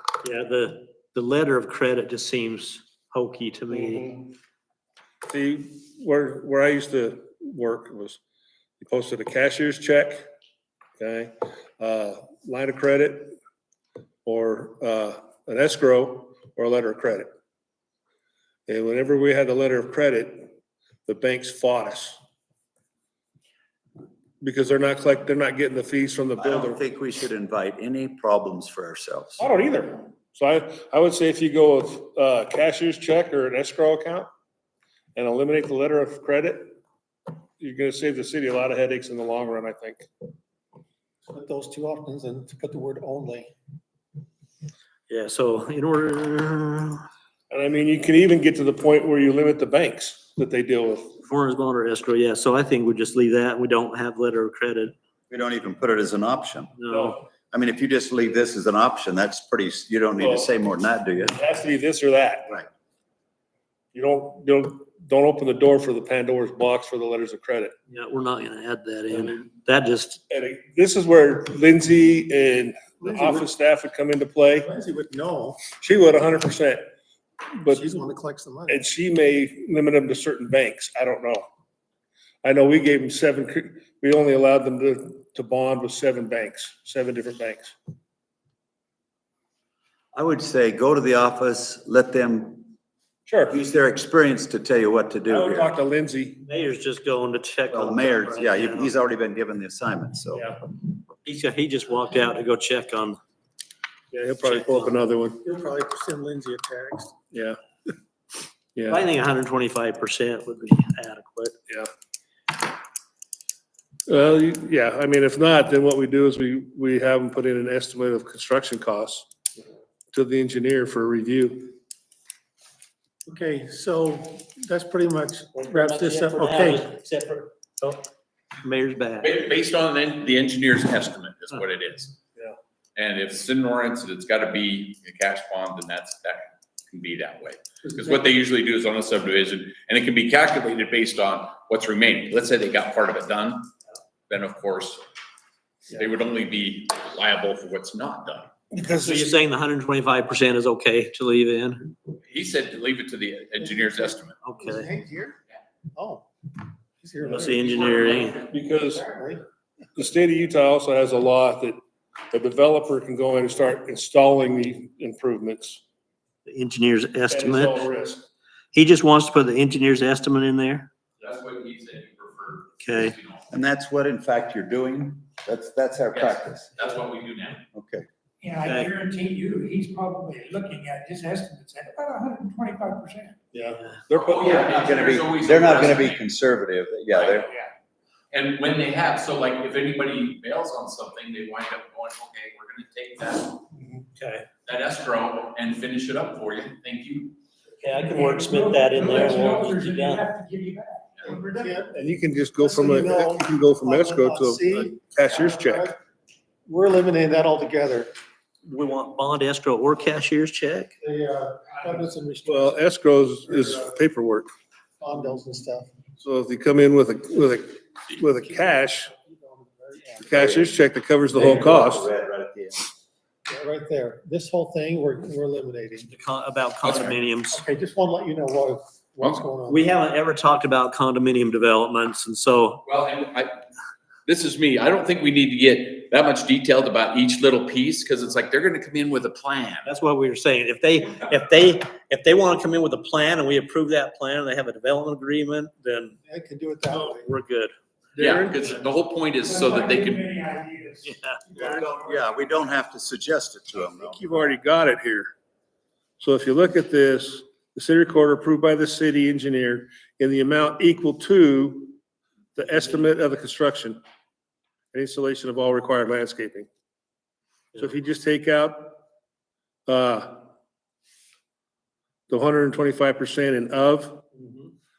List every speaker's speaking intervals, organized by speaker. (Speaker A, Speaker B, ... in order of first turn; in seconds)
Speaker A: 0.2-4.0, 45.1-47.0, 51.2-54.9, 56.8-57.2, 67.9-70.2, 96.4-98.9, 101.2-103.2, 104.4-104.9, 108.9-111.5, 125.5-128.0, 128.6-129.5, 149.0-151.9, 154.4-154.9, 157.2-158.4, 166.4-167.8, 168.7-170.9, 172.8-173.2, 178.6-179.0, 194.2-194.5, 197.8-200.3, 208.7-210.9, 226.1-227.6, 229.7-232.8, 239.8-246.2, 246.9-247.7, 251.0-251.4
Speaker B: 3.7-4.3, 5.3-8.2, 8.8-10.2, 11.0-13.3, 14.2-17.3, 18.7-20.5, 21.1-22.2, 24.4-26.8, 29.4-34.3, 35.1-36.7, 37.6-40.1, 47.5-51.2, 56.9-57.2, 60.2-60.5, 61.2-62.6, 63.9-67.7, 70.3-74.7, 75.7-76.8, 77.5-77.8, 78.7-81.4, 82.4-87.7, 93.3-93.5, 95.3-96.4, 104.1-105.4, 107.3-107.6, 108.7-109.0, 114.1-119.3, 120.1-121.8, 148.7-149.3, 158.5-159.0, 159.9-161.8, 162.3-165.8, 167.3-168.3, 183.5-184.7, 201.9-205.9, 212.4-214.5, 216.2-219.1, 220.2-222.1, 248.1-248.8, 254.1-255.3, 256.2-261.9, 262.5-264.0, 264.9-266.7, 267.8-269.0, 269.9-270.4, 272.3-274.2
Speaker C: 26.4-29.4, 55.3-56.7, 57.5-61.4, 90.1-92.7, 93.5-95.7, 97.7-100.5, 173.5-176.7, 177.7-178.1, 184.6-187.5, 220.4-220.7, 221.3-222.9, 251.5-254.5
Speaker D: 41.2-43.5, 73.0-73.5, 74.6-75.6, 77.7-78.8, 105.4-107.1, 123.2-126.9, 153.6-155.4, 155.9-156.3, 157.0-159.4, 201.2-201.9, 202.6-205.9, 206.7-208.1, 211.0-212.8, 215.0-215.9, 218.2-220.5, 223.5-226.1, 227.5-229.8, 246.2-247.3
Speaker E: 129.2-132.2, 132.9-143.7, 144.3-145.0, 145.9-148.5, 152.1-154.4, 171.2-173.5, 176.1-177.6, 184.1-186.2, 187.1-187.7, 188.3-193.6, 194.7-197.3, 232.8-233.5, 234.3-239.9, 248.2-250.4
Speaker F: 178.4-183.4, 198.0-201.8, 249.5-251.0